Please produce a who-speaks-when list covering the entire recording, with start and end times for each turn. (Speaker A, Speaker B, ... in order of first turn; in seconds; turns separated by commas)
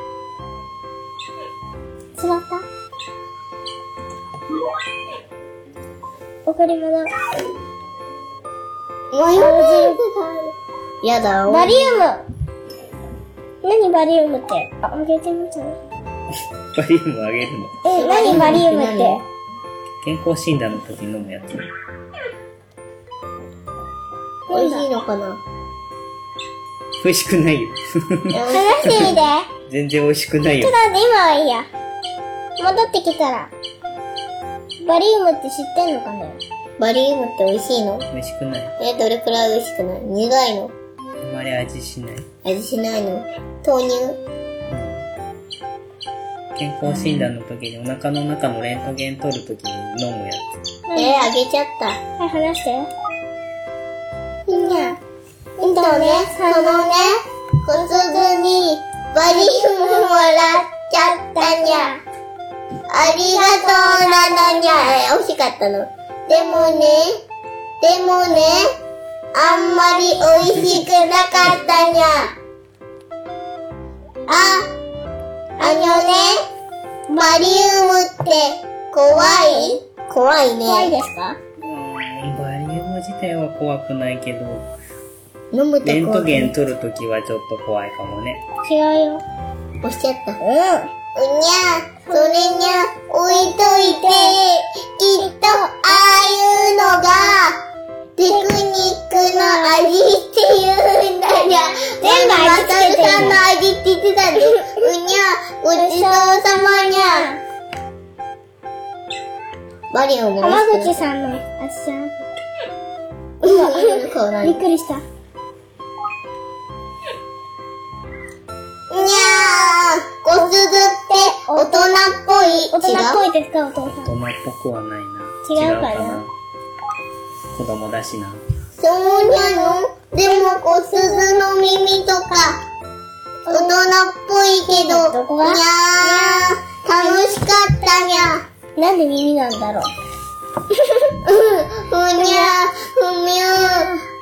Speaker A: 2.1-2.6, Speaker A: 6.5-7.1, Speaker B: 9.1-10.0, Speaker A: 9.3-10.5, Speaker B: 11.0-11.8, Speaker A: 11.5-12.2, Speaker A: 13.6-15.8, Speaker C: 16.7-17.9, Speaker A: 17.8-19.2, Speaker B: 17.9-19.2, Speaker C: 20.0-21.7, Speaker A: 24.5-24.9, Speaker B: 24.5-25.4, Speaker C: 27.0-28.4, Speaker B: 28.3-29.2, Speaker A: 28.5-29.5, Speaker C: 29.7-30.8, Speaker A: 30.6-31.7, Speaker A: 32.6-33.5, Speaker A: 34.8-36.4, Speaker B: 36.8-38.0, Speaker C: 38.1-38.8, Speaker B: 38.8-40.7, Speaker C: 41.2-42.3, Speaker B: 42.4-44.2, Speaker C: 44.7-45.1, Speaker C: 46.5-50.8, Speaker A: 50.9-51.3, Speaker B: 50.9-52.0, Speaker A: 52.2-52.9, Speaker A: 54.5-55.0, Speaker B: 54.5-54.9, Speaker B: 55.6-61.9, Speaker A: 55.6-56.9, Speaker A: 61.4-62.0, Speaker B: 62.9-67.2, Speaker B: 67.8-68.7, Speaker B: 69.3-72.3, Speaker B: 74.3-74.7, Speaker B: 75.6-76.4, Speaker A: 77.1-77.6, Speaker B: 77.2-80.9, Speaker A: 80.6-81.4, Speaker C: 81.6-84.7, Speaker B: 85.5-86.5, Speaker C: 85.8-88.5, Speaker A: 88.6-89.2, Speaker B: 89.8-90.4, Speaker A: 90.4-90.9, Speaker B: 91.1-97.6, Speaker B: 98.2-107.3, Speaker A: 99.3-99.9, Speaker A: 102.0-103.4, Speaker A: 105.7-106.3, Speaker A: 107.0-107.4, Speaker B: 109.9-111.0, Speaker A: 110.4-112.2, Speaker B: 113.4-114.6, Speaker A: 113.5-115.0, Speaker B: 118.9-123.2, Speaker A: 121.2-121.9, Speaker A: 122.7-124.1, Speaker C: 124.0-126.3, Speaker A: 125.4-126.2, Speaker C: 127.5-128.4, Speaker B: 128.8-132.6, Speaker A: 133.5-133.8, Speaker B: 133.5-138.4, Speaker A: 134.7-136.4, Speaker A: 138.8-139.9, Speaker B: 141.2-143.9